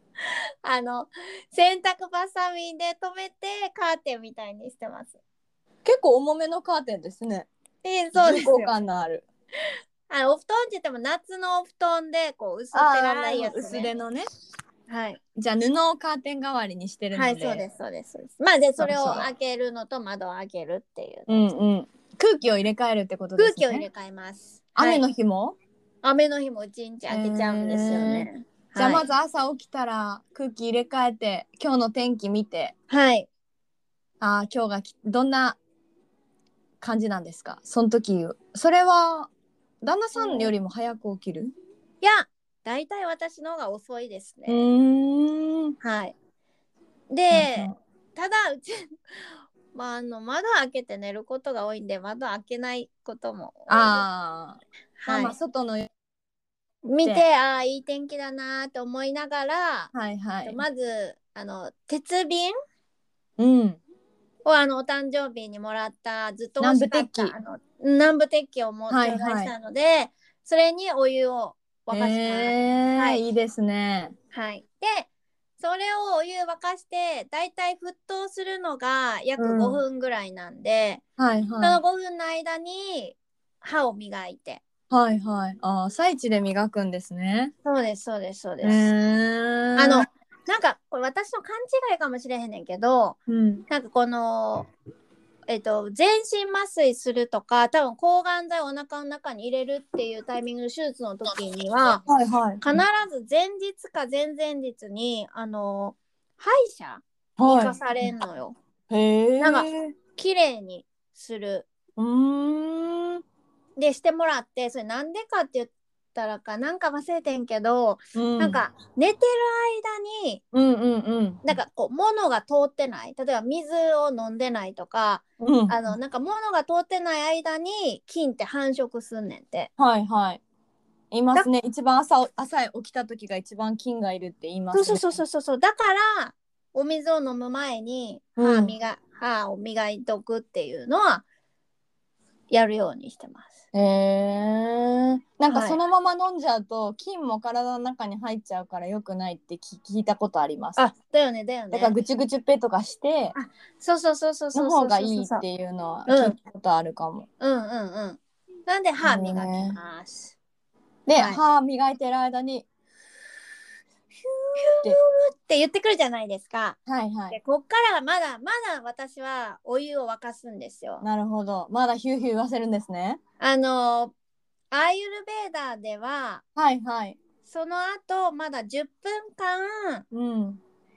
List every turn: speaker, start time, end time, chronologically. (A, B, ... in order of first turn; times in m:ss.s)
0:00.6-0:05.2 A
0:05.8-0:07.5 B
0:07.8-0:08.7 A
0:08.2-0:09.2 B
0:10.1-0:13.9 A
0:12.7-0:14.2 B
0:14.9-0:15.2 A
0:15.4-0:17.6 B
0:17.2-0:21.5 A
0:18.8-0:19.3 B
0:21.3-0:23.9 B
0:23.4-0:25.0 A
0:24.8-0:25.6 B
0:26.0-0:29.0 A
0:27.1-0:32.7 B
0:32.9-0:33.3 A
0:34.2-0:35.6 B
0:36.8-0:39.3 B
0:39.8-0:41.5 B
0:40.2-0:40.5 A
0:42.0-0:44.7 A
0:44.5-0:45.8 B
0:45.8-0:46.2 A
0:47.1-0:49.0 A
0:47.3-0:47.8 B
0:49.7-0:54.1 A
0:53.7-0:55.9 B
0:55.0-0:55.4 A
0:56.8-1:02.5 A
0:59.9-1:00.6 B
1:03.4-1:03.8 B
1:04.4-1:13.2 A
1:06.6-1:07.4 B
1:08.9-1:09.5 B
1:11.9-1:14.1 B
1:14.3-1:21.0 A
1:19.4-1:19.8 B
1:21.2-1:21.8 B
1:21.6-1:24.6 A
1:24.9-1:27.5 B
1:27.6-1:28.9 A
1:28.6-1:30.1 B
1:29.8-1:34.7 A
1:33.3-1:33.6 B
1:35.5-1:42.0 A
1:42.1-1:42.8 B
1:42.6-1:48.6 A
1:47.4-1:47.8 B
1:48.9-1:49.9 B
1:49.4-1:51.7 A
1:52.0-1:53.2 B
1:53.8-2:00.4 A
1:58.2-1:58.6 B
2:00.5-2:01.4 B
2:01.4-2:09.7 A
2:05.4-2:05.8 B
2:09.8-2:10.4 B
2:11.1-2:15.2 B
2:14.7-2:21.2 A
2:18.4-2:18.7 B
2:22.5-2:23.5 A
2:23.7-2:30.8 B
2:25.5-2:25.8 A
2:30.8-2:32.0 A
2:31.7-2:33.4 B
2:33.4-2:35.4 A
2:34.5-2:37.3 B
2:36.1-2:36.4 A
2:37.4-2:40.4 A
2:39.0-2:39.8 B
2:41.1-2:42.7 B
2:44.3-2:46.8 A
2:46.9-2:47.4 B
2:47.3-2:51.0 A
2:51.0-2:53.2 B
2:53.4-2:54.1 A
2:54.7-2:56.4 A
2:56.6-2:57.2 B
2:57.4-3:00.0 A
3:00.1-3:00.6 B